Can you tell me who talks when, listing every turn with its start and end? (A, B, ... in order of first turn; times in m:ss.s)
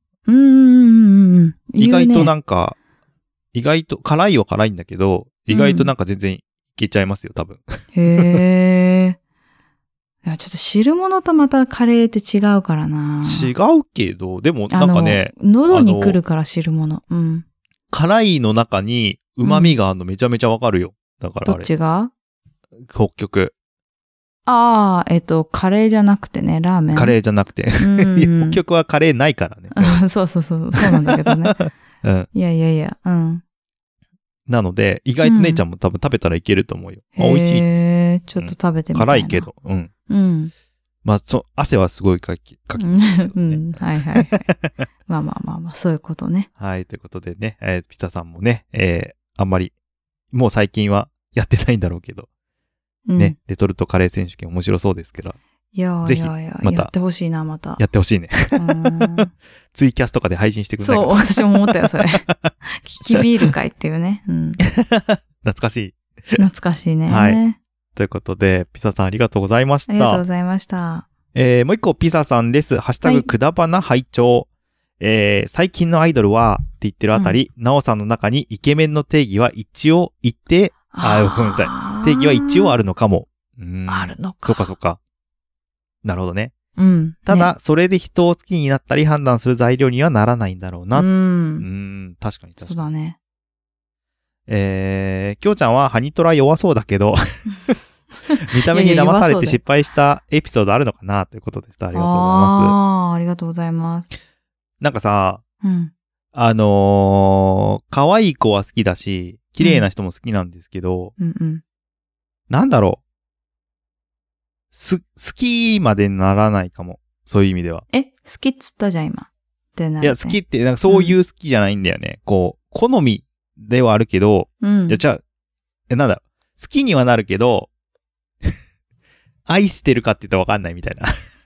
0:00.3-0:02.3 A
0:01.8-0:02.8 B
0:03.5-0:08.4 B
0:05.5-0:05.9 A
0:07.9-0:09.2 A
0:10.2-0:13.5 A
0:13.2-0:16.2 B
0:14.7-0:17.4 A
0:17.9-0:21.7 B
0:19.4-0:19.8 A
0:21.4-0:22.1 A
0:22.8-0:23.5 B
0:24.4-0:27.2 A
0:26.9-0:30.0 B
0:27.8-0:28.6 A
0:29.7-0:31.6 A
0:30.8-0:32.3 B
0:32.3-0:33.4 A
0:34.5-0:37.6 B
0:35.2-0:35.6 A
0:37.2-0:39.5 A
0:38.4-0:39.9 B
0:40.1-0:40.5 A
0:41.0-0:44.7 B
0:42.8-0:44.5 A
0:45.1-0:46.5 A
0:46.6-0:49.7 B
0:50.3-0:52.3 B
0:53.1-0:53.4 A
0:53.2-0:55.4 B
0:55.7-0:57.8 A
0:56.0-0:56.9 B
0:57.8-1:01.8 B
0:58.6-0:59.3 A
1:00.8-1:04.6 A
1:04.6-1:06.4 B
1:06.4-1:07.6 A
1:07.1-1:07.4 B
1:08.0-1:10.2 B
1:09.9-1:11.1 A
1:11.3-1:14.5 B
1:15.0-1:25.0 B
1:17.1-1:17.4 A
1:20.9-1:22.8 A
1:23.9-1:24.7 A
1:26.0-1:26.5 B
1:26.8-1:27.5 A
1:27.2-1:31.1 B
1:30.9-1:31.6 A
1:31.6-1:32.8 B
1:32.6-1:33.2 A
1:34.5-1:37.8 B
1:38.2-1:39.6 A
1:38.5-1:42.7 B
1:41.9-1:44.1 A
1:44.8-1:45.4 B
1:45.6-1:45.9 A
1:46.3-1:51.1 B
1:49.6-1:49.9 A
1:51.2-1:51.6 A
1:52.5-1:53.0 B
1:54.7-1:57.8 B
1:57.9-2:01.2 A
2:00.0-2:05.2 B
2:04.6-2:05.0 A
2:05.9-2:07.7 B
2:09.5-2:11.1 B